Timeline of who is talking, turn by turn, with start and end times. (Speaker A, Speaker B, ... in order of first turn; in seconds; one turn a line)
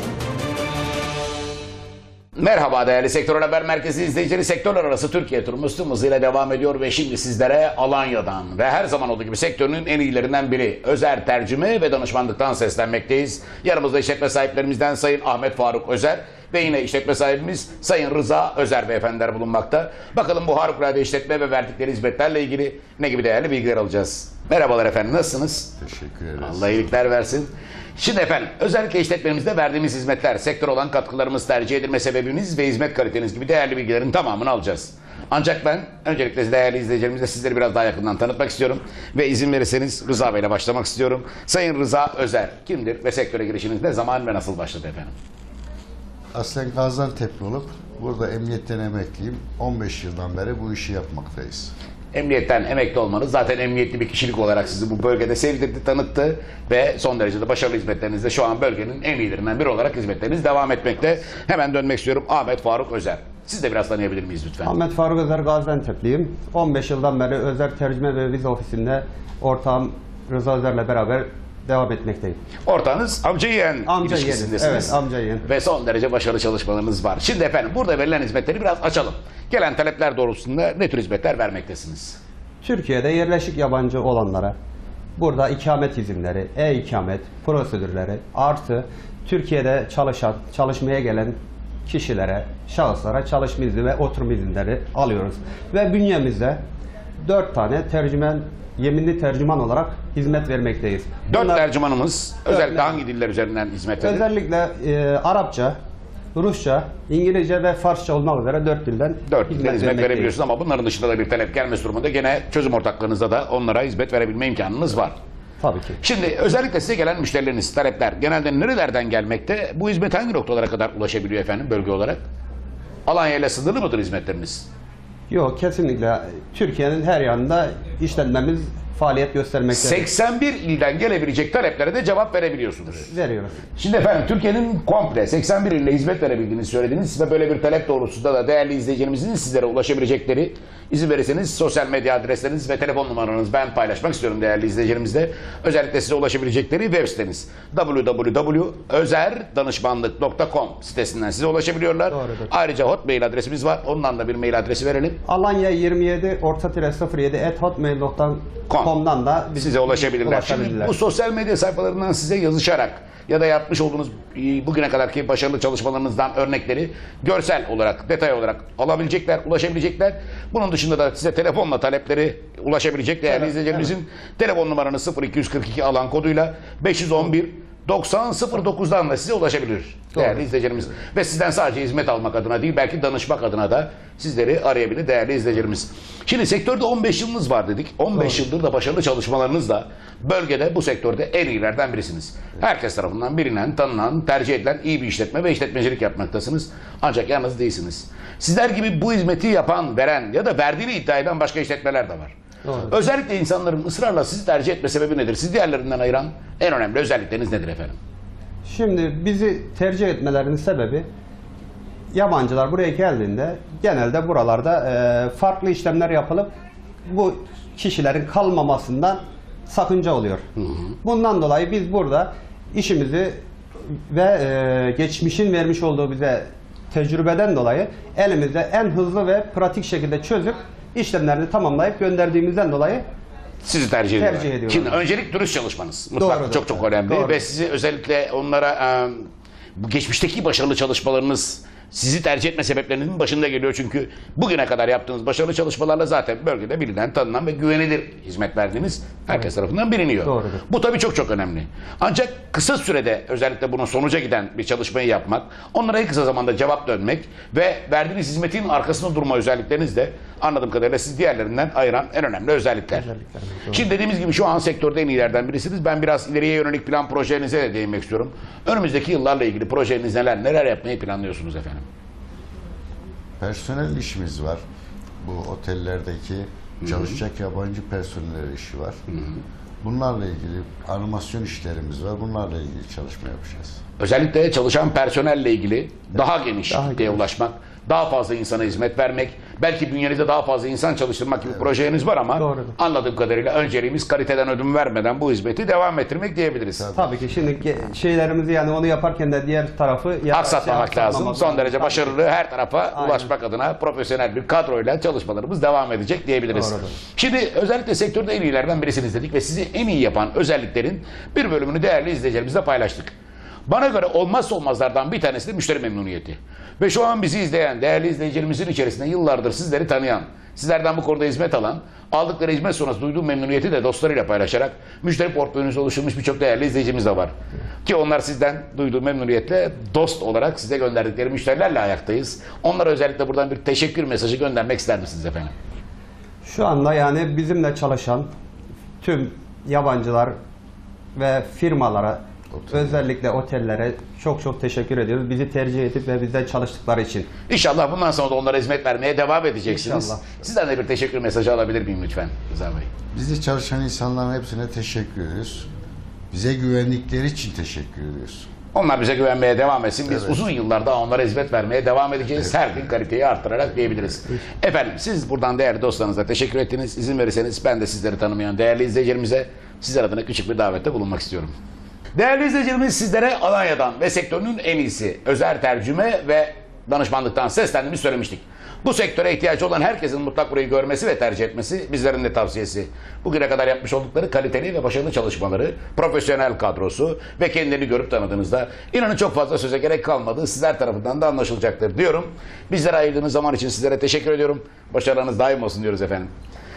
Speaker A: 2.4-25.7
Speaker B: 25.8-27.0
Speaker A: 26.4-45.1
Speaker B: 46.3-51.7
Speaker A: 52.1-64.7
Speaker C: 64.7-72.4
Speaker A: 72.7-82.2
Speaker C: 73.8-75.5
Speaker C: 82.6-84.5
Speaker C: 85.2-96.6
Speaker C: 97.2-101.7
Speaker A: 101.3-104.3
Speaker C: 102.5-103.0
Speaker C: 104.0-105.8
Speaker C: 106.3-110.3
Speaker A: 109.3-115.2
Speaker C: 115.6-116.0
Speaker A: 116.0-122.2
Speaker A: 123.1-124.7
Speaker C: 125.3-130.1
Speaker A: 129.7-133.1
Speaker C: 133.0-133.7
Speaker A: 133.8-155.2
Speaker C: 152.1-152.5
Speaker C: 155.3-160.9
Speaker A: 159.6-202.3
Speaker C: 202.6-203.0
Speaker A: 202.9-208.0
Speaker C: 208.7-211.1
Speaker C: 212.1-216.5
Speaker C: 217.1-220.4
Speaker C: 221.0-223.4
Speaker C: 224.1-233.1
Speaker A: 233.6-263.1
Speaker C: 234.2-235.0
Speaker C: 236.2-237.4
Speaker C: 250.2-250.6
Speaker C: 262.9-263.9
Speaker A: 263.7-271.9
Speaker B: 273.4-274.6
Speaker B: 275.2-279.0
Speaker A: 276.8-277.2
Speaker A: 279.1-279.4
Speaker B: 279.8-283.8
Speaker A: 284.0-296.9
Speaker C: 286.7-287.2
Speaker B: 291.5-291.8
Speaker C: 292.4-292.8
Speaker B: 296.8-297.2
Speaker C: 296.9-302.2
Speaker A: 300.3-313.1
Speaker C: 302.9-303.3
Speaker C: 306.5-306.9
Speaker A: 313.7-335.5
Speaker C: 336.4-338.3
Speaker C: 339.0-340.4
Speaker C: 341.2-347.3
Speaker B: 342.5-343.0
Speaker A: 347.5-352.9
Speaker C: 349.7-350.2
Speaker B: 353.1-355.7
Speaker B: 356.3-358.5
Speaker A: 358.7-371.5
Speaker B: 360.1-360.4
Speaker B: 362.4-362.8
Speaker A: 372.1-396.3